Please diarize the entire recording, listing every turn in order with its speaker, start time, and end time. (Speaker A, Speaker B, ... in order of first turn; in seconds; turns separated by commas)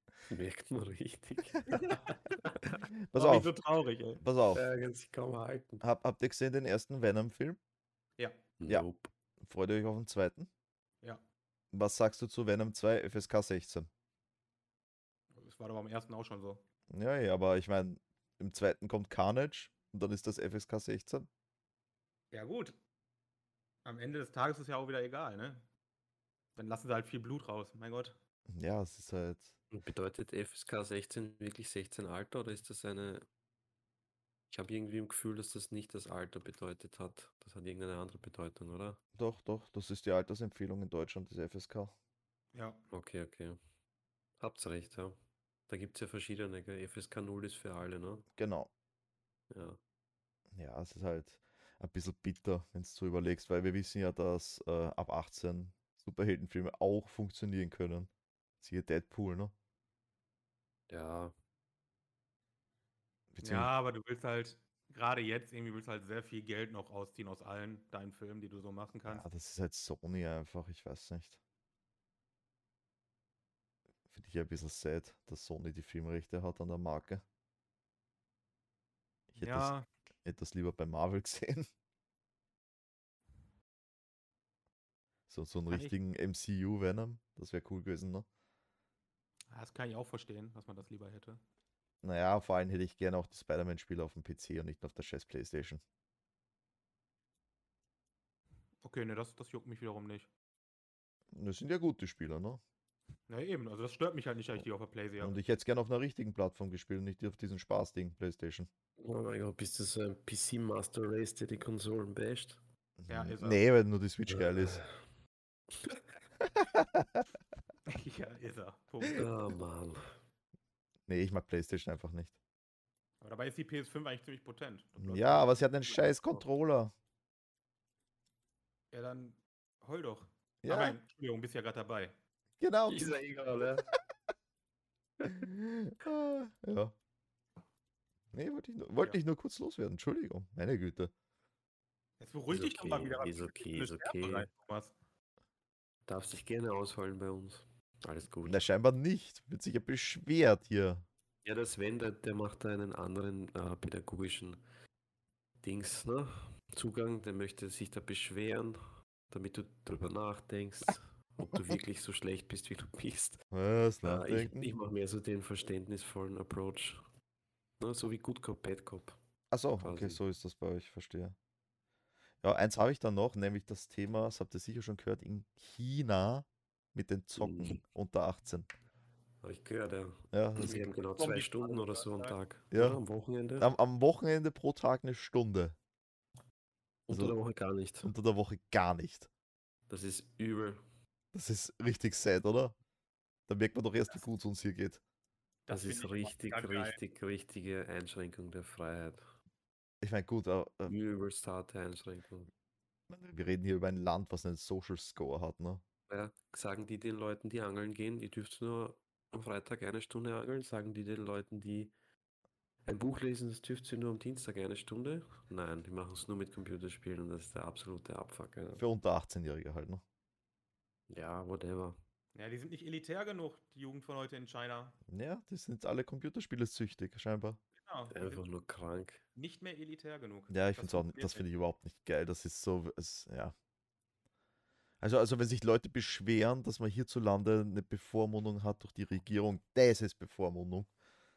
Speaker A: 0.3-2.5, Speaker B: 1.7-2.1, Speaker C: 3.0-3.5, Speaker B: 3.1-4.2, Speaker C: 4.2-4.6, Speaker A: 4.5-5.8, Speaker C: 5.8-7.6, Speaker A: 8.6-9.1, Speaker C: 9.4-10.5, Speaker C: 11.7-13.9, Speaker B: 15.3-16.6, Speaker C: 16.9-21.3, Speaker B: 22.3-22.8, Speaker B: 23.8-25.6, Speaker B: 26.6-28.2, Speaker C: 28.5-29.5, Speaker A: 29.7-33.2, Speaker A: 34.5-39.0, Speaker C: 39.1-41.9, Speaker B: 42.5-42.8, Speaker A: 42.9-43.6, Speaker A: 44.4-48.3, Speaker C: 48.4-48.7, Speaker A: 49.5-49.8, Speaker C: 50.5-58.1, Speaker C: 58.6-59.5, Speaker A: 60.9-61.3, Speaker C: 63.3-63.7, Speaker B: 63.4-69.2, Speaker C: 69.1-71.4, Speaker C: 74.1-77.2, Speaker C: 79.3-79.7, Speaker B: 79.4-79.9, Speaker C: 80.2-81.7, Speaker C: 85.3-88.3, Speaker B: 85.7-86.0, Speaker B: 89.5-91.4, Speaker C: 92.0-95.8, Speaker B: 98.8-100.3, Speaker C: 101.3-102.6, Speaker B: 103.3-105.4, Speaker C: 105.2-108.7, Speaker A: 109.0-112.6, Speaker C: 113.0-114.8, Speaker B: 113.1-113.6, Speaker A: 114.3-114.9, Speaker C: 116.5-117.2, Speaker B: 117.9-119.3, Speaker A: 119.1-120.1, Speaker C: 121.1-122.3, Speaker B: 123.2-126.0, Speaker C: 125.0-126.9, Speaker B: 128.9-132.2, Speaker C: 130.6-131.0, Speaker C: 132.6-133.1, Speaker A: 132.9-133.9, Speaker C: 135.3-136.9, Speaker C: 138.3-141.1, Speaker B: 142.2-144.9, Speaker A: 142.5-144.5, Speaker A: 146.1-148.6, Speaker C: 148.4-151.1, Speaker A: 151.4-154.6, Speaker A: 155.6-158.8, Speaker A: 159.3-163.4, Speaker C: 163.5-164.7, Speaker A: 164.0-167.0, Speaker A: 167.8-169.2, Speaker C: 169.5-171.3, Speaker A: 169.8-170.2, Speaker C: 172.4-178.7, Speaker A: 177.4-177.8, Speaker A: 179.4-183.7, Speaker C: 180.3-180.8, Speaker B: 180.6-182.3, Speaker C: 182.7-183.0, Speaker C: 183.6-185.8, Speaker A: 187.1-188.1, Speaker C: 187.1-187.3, Speaker C: 188.0-189.3, Speaker A: 189.9-190.8, Speaker C: 191.3-192.8, Speaker C: 193.5-195.0, Speaker B: 195.7-197.0, Speaker A: 195.7-199.2, Speaker C: 200.0-200.9, Speaker A: 200.9-202.5, Speaker C: 203.1-205.8, Speaker A: 206.1-211.9, Speaker A: 212.8-218.8, Speaker C: 218.8-220.0, Speaker A: 221.1-222.0, Speaker B: 222.3-225.0, Speaker C: 225.1-227.6, Speaker B: 227.8-228.4, Speaker A: 228.1-229.2, Speaker B: 229.3-231.4, Speaker C: 230.5-233.5, Speaker C: 235.0-240.9